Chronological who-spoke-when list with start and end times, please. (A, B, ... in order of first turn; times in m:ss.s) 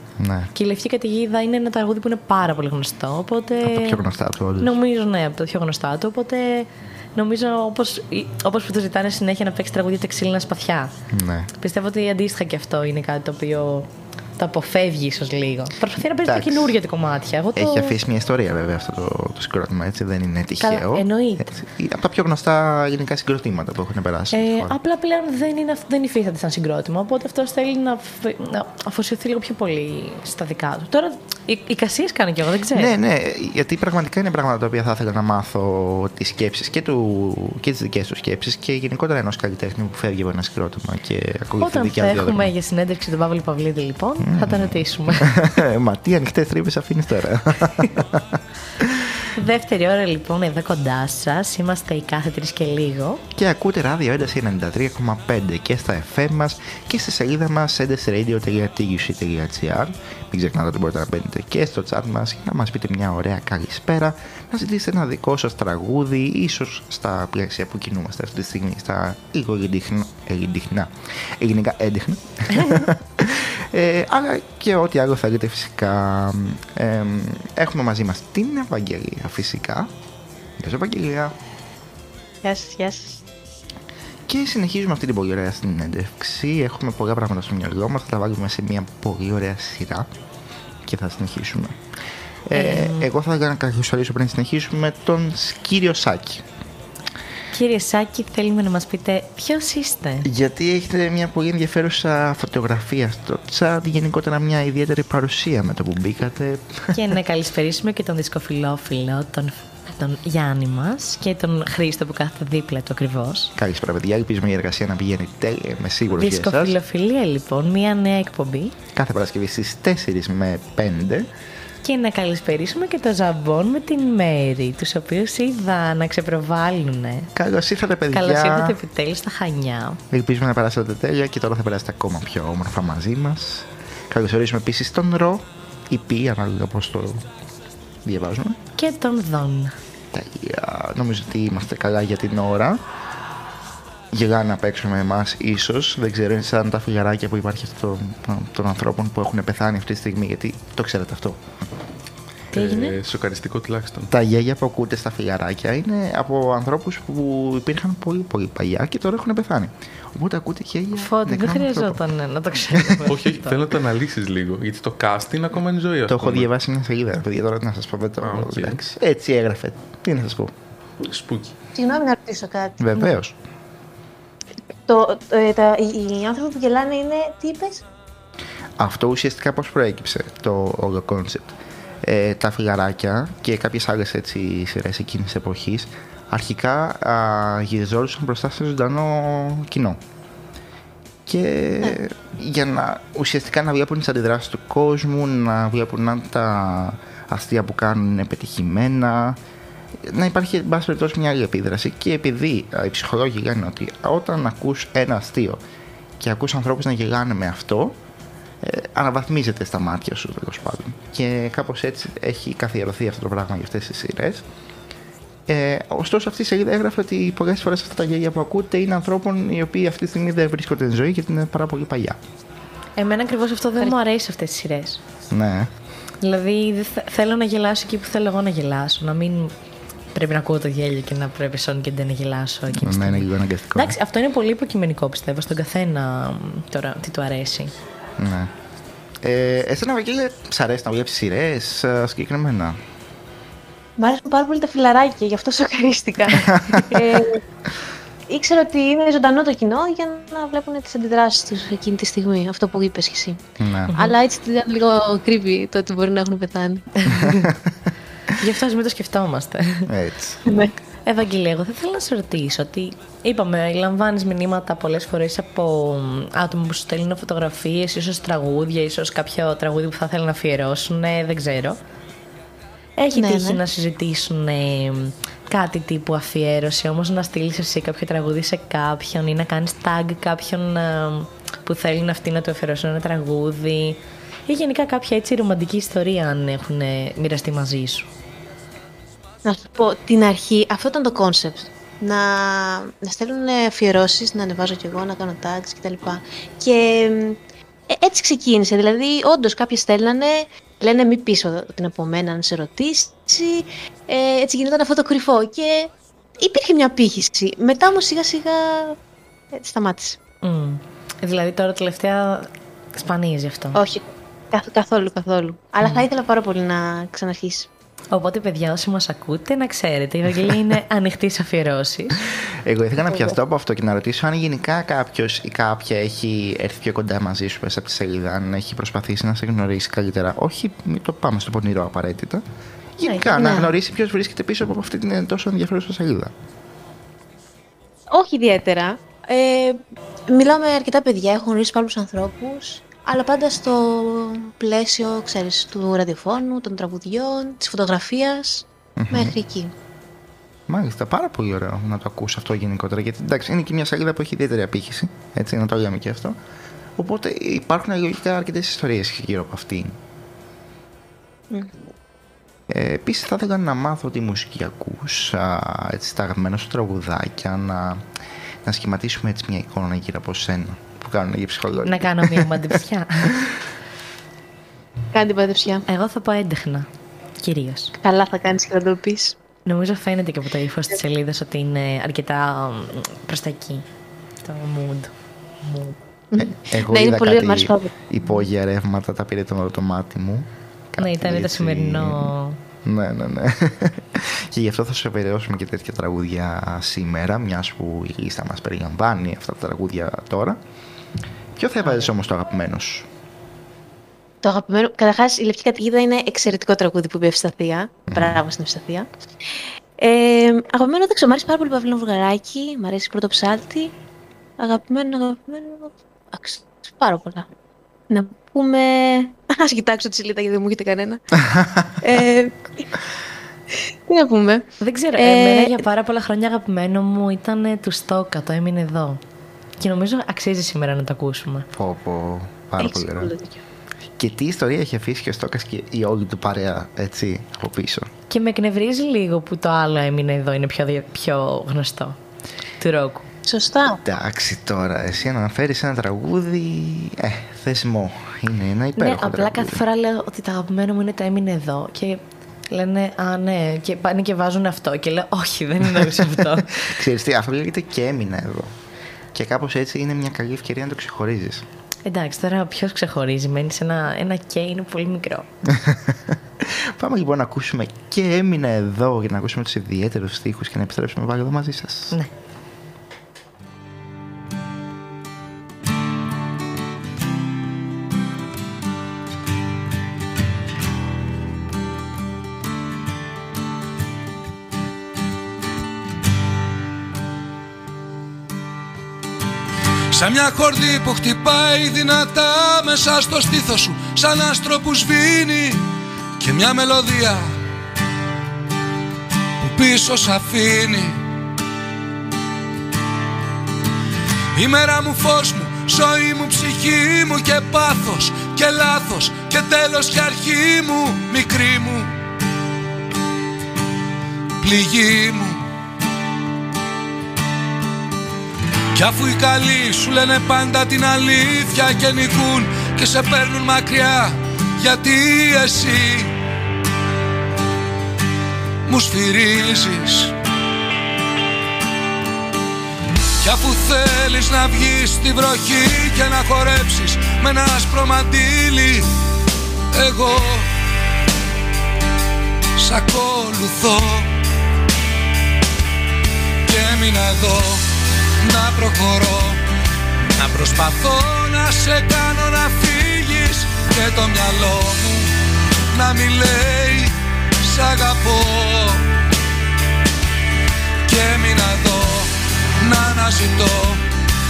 0:00.2-0:00.5 A
0:00.5-0:04.0 B
0:03.6-0:04.7 A
0:04.6-0:10.9 B
0:11.1-0:11.5 A
0:11.6-0:17.9 B
0:16.2-0:16.7 A
0:17.5-0:24.8 A
0:20.6-0:21.5 B
0:24.3-0:32.9 B
0:32.7-0:42.5 A
0:41.6-0:45.3 B
0:44.2-0:49.2 A
0:49.3-0:53.2 B
0:53.3-1:19.9 A
1:20.6-1:21.4 A
1:22.4-1:23.1 C
1:22.5-1:22.8 B
1:24.3-1:30.1 A
1:30.8-1:31.8 A
1:32.5-1:36.4 A
1:32.5-1:33.1 B
1:37.5-1:40.3 B
1:40.2-1:47.0 A
1:46.9-1:53.5 B
1:53.6-1:56.8 A
1:56.2-1:58.7 B
1:58.9-2:01.3 A
2:01.8-2:07.3 B
2:07.3-2:08.8 A
2:08.1-2:10.0 B
2:10.1-2:17.3 A
2:18.0-2:18.6 A
2:18.8-2:19.7 B
2:20.1-2:22.8 A
2:24.1-2:31.4 A
2:32.5-2:33.0 B
2:32.5-2:34.1 D
2:34.1-2:42.0 A
2:41.0-2:43.6 B
2:43.1-2:46.5 D
2:46.1-2:50.5 A
2:48.2-2:48.8 D
2:51.0-2:51.5 D
2:51.7-2:52.8 C
2:52.8-2:53.4 A
2:54.9-2:57.8 C
2:58.8-3:10.0 A
3:11.2-3:19.4 A
3:20.0-3:25.6 A
3:26.2-3:28.0 A
3:28.6-3:34.4 A
3:35.5-3:42.2 A
3:43.0-3:45.0 B
3:45.3-3:45.7 A
3:46.2-3:49.5 B
3:50.1-3:57.7 B
3:52.8-3:54.0 A
3:58.2-3:58.5 A
3:59.2-4:02.8 A
4:04.0-4:07.4 C
4:08.3-4:13.4 C
4:13.6-4:13.9 A
4:13.9-4:16.9 C
4:17.0-4:17.5 B
4:17.1-4:17.6 A
4:18.4-4:19.9 B
4:19.9-4:20.4 A
4:20.4-4:20.7 C
4:21.0-4:31.8 B
4:33.0-4:48.1 B
4:33.1-4:33.6 C
4:49.4-5:09.0 C
5:09.5-5:10.2 C
5:10.4-5:13.8 B
5:13.7-5:17.7 C
5:18.1-5:22.2 B
5:22.6-5:32.4 A
5:33.0-5:36.3 A
5:33.0-5:33.7 C
5:38.1-5:49.7 C
5:49.0-5:49.4 A
5:50.7-5:56.4 A
5:57.0-6:00.0 A
6:01.5-6:01.8 C
6:02.7-6:08.0 A
6:08.6-6:12.6 A
6:11.8-6:13.3 B
6:15.1-6:15.8 C
6:15.9-6:16.9 B
6:17.4-6:17.9 B
6:18.0-6:19.4 C
6:19.6-6:23.8 B
6:24.4-6:25.1 B
6:25.6-6:25.9 B
6:26.3-6:27.9 C
6:26.4-6:40.6 A
6:31.0-6:32.6 B
6:41.6-6:43.1 A
6:44.4-6:49.1 C
6:48.1-6:48.4 A
6:50.0-6:53.9 C
6:54.6-6:57.5 C
6:58.1-7:01.2 C
7:02.0-7:02.9 C
7:04.0-7:05.8 C
7:04.8-7:09.2 B
7:09.8-7:11.7 B
7:11.7-7:13.3 A
7:12.8-7:13.6 C
7:14.2-7:18.1 A
7:18.3-7:22.2 B
7:22.8-7:23.2 B
7:23.4-7:24.0 C
7:24.0-7:29.8 A
7:29.0-7:36.8 B
7:36.8-7:38.7 A
7:39.3-7:41.6 A
7:42.0-7:45.4 B
7:45.7-7:52.2 A
8:10.1-8:15.8 E
8:16.4-8:17.6 E
8:19.6-8:21.2 E
8:24.5-8:32.1 E
8:34.6-8:35.6 E
8:38.9-8:46.3 E
8:48.8-8:50.3 E
8:53.4-8:59.1 E
8:59.9-9:00.7 E
9:02.8-9:04.3 E
9:06.6-9:07.8 E
9:08.4-9:09.6 E
9:10.4-9:15.3 E
9:15.9-9:19.0 E
9:21.0-9:24.0 E